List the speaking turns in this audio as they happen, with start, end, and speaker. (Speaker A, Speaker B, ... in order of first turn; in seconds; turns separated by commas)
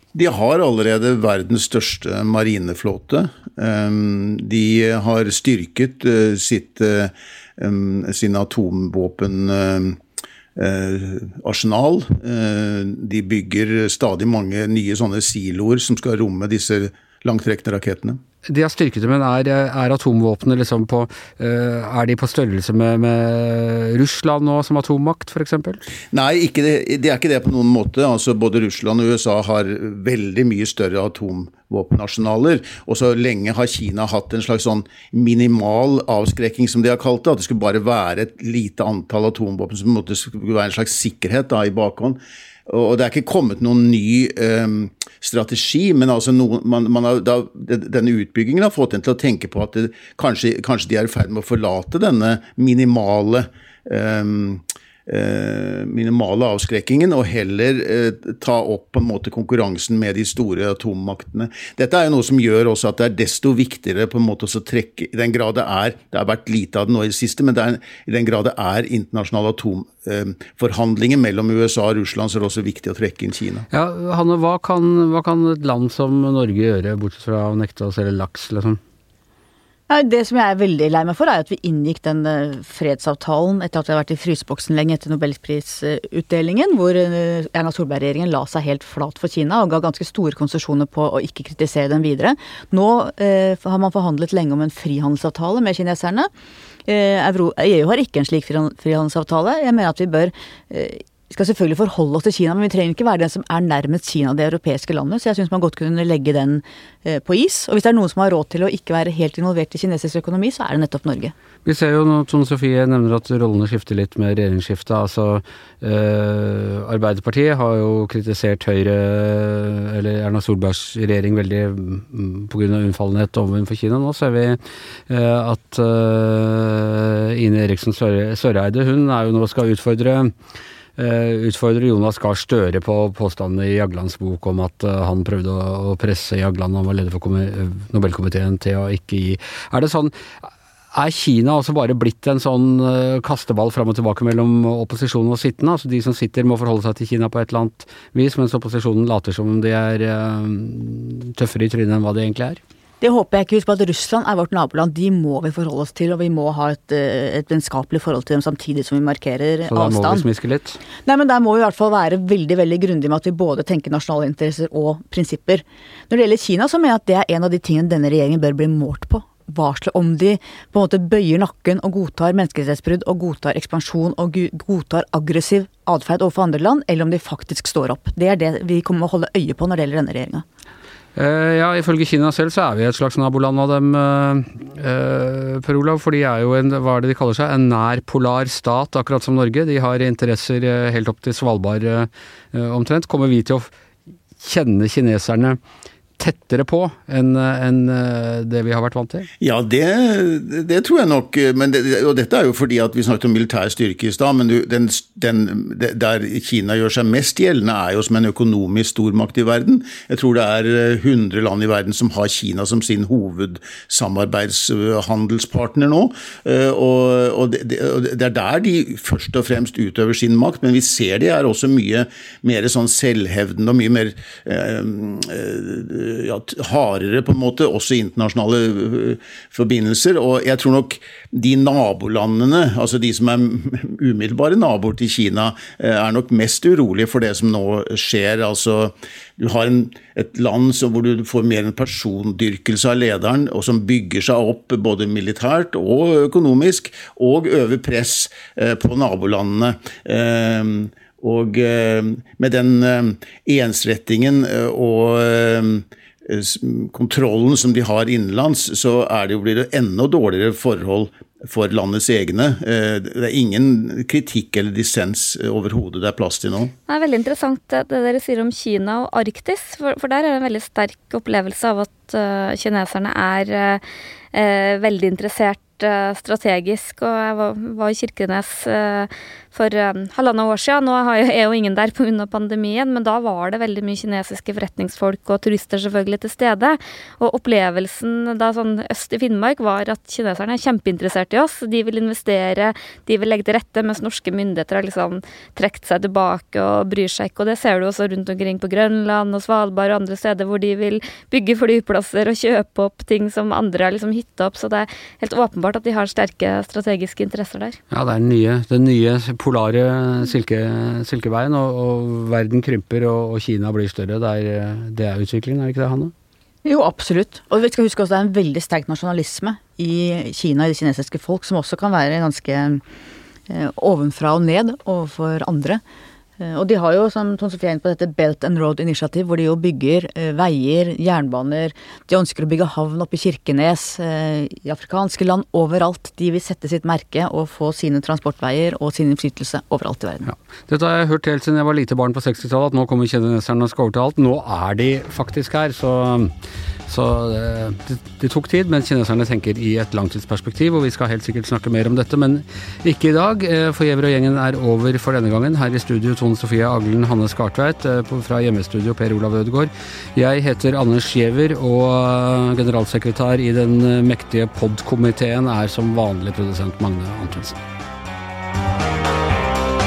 Speaker A: 0.1-10.0, Speaker A: 10.6-18.2, Speaker B: 18.4-25.8, Speaker A: 26.1-73.7, Speaker B: 73.7-78.8, Speaker C: 79.9-96.3, Speaker C: 96.9-111.3, Speaker B: 111.6-130.3, Speaker B: 131.0-140.1, Speaker B: 140.9-152.6, Speaker C: 153.0-160.2, Speaker B: 159.6-160.8, Speaker C: 161.0-180.4, Speaker B: 181.2-193.7, Speaker B: 194.4-195.6, Speaker B: 196.2-199.3, Speaker A: 199.4-266.7, Speaker D: 266.9-307.8, Speaker B: 307.9-316.1, Speaker C: 316.6-322.8, Speaker C: 323.5-325.8, Speaker C: 326.4-340.3, Speaker B: 340.3-346.3, Speaker B: 346.9-367.6